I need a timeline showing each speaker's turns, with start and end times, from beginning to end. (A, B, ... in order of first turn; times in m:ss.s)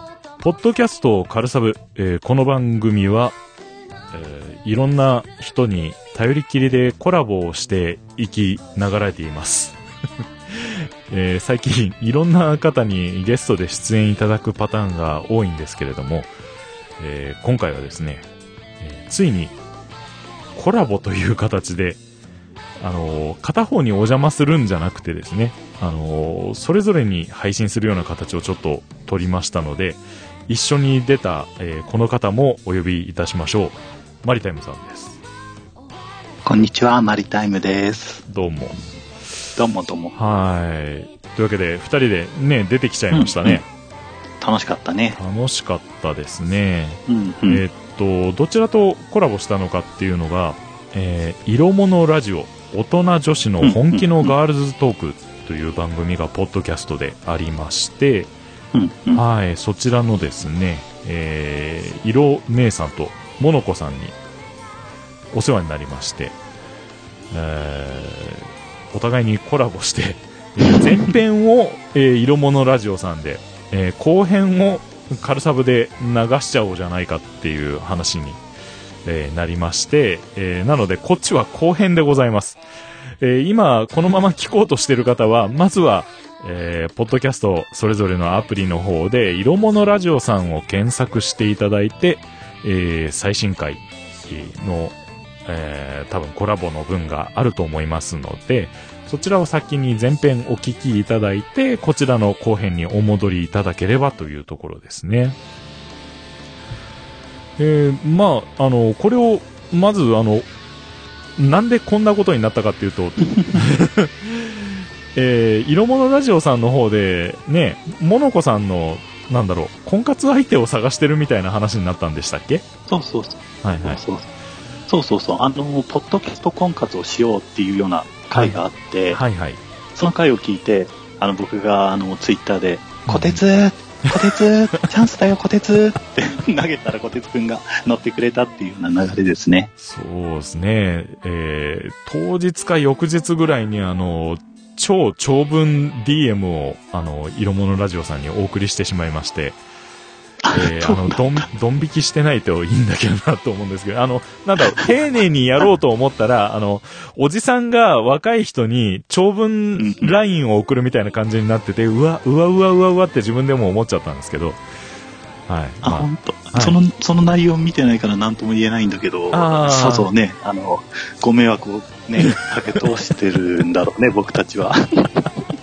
0:00.4-0:03.4 A
0:04.1-0:09.8 A
0:10.5-0:16.3 A
0:17.0-0:18.3 A
0:18.8-0:19.6 A
0:20.5-0:22.0 A
0:22.8-0:35.2 A
0:36.4-0:38.2 B
0:38.3-0:38.8 A
0:39.6-0:40.1 B
0:40.1-0:43.6 A
0:43.1-0:43.6 B
0:44.4-0:45.2 B
0:45.2-0:58.3 A
0:47.1-0:47.6 B
0:53.6-0:54.3 B
0:58.7-0:59.2 B
0:59.1-1:04.1 A
1:05.3-1:06.4 A
1:07.3-1:18.4 A
1:19.0-1:22.6 A
1:23.2-1:45.4 A
1:47.6-1:50.5 A
1:51.4-2:02.6 A
2:02.9-2:04.3 B
2:03.6-2:04.0 A
2:04.9-2:09.2 B
2:08.3-2:08.6 A
2:09.1-2:09.6 A
2:09.9-2:19.7 B
2:13.1-2:13.4 A
2:14.1-2:14.4 A
2:19.8-2:29.6 A
2:30.4-2:31.2 B
2:30.5-2:44.6 A
2:39.8-2:40.1 B
2:45.5-2:46.8 A
2:45.8-2:55.3 B
2:49.3-2:50.1 A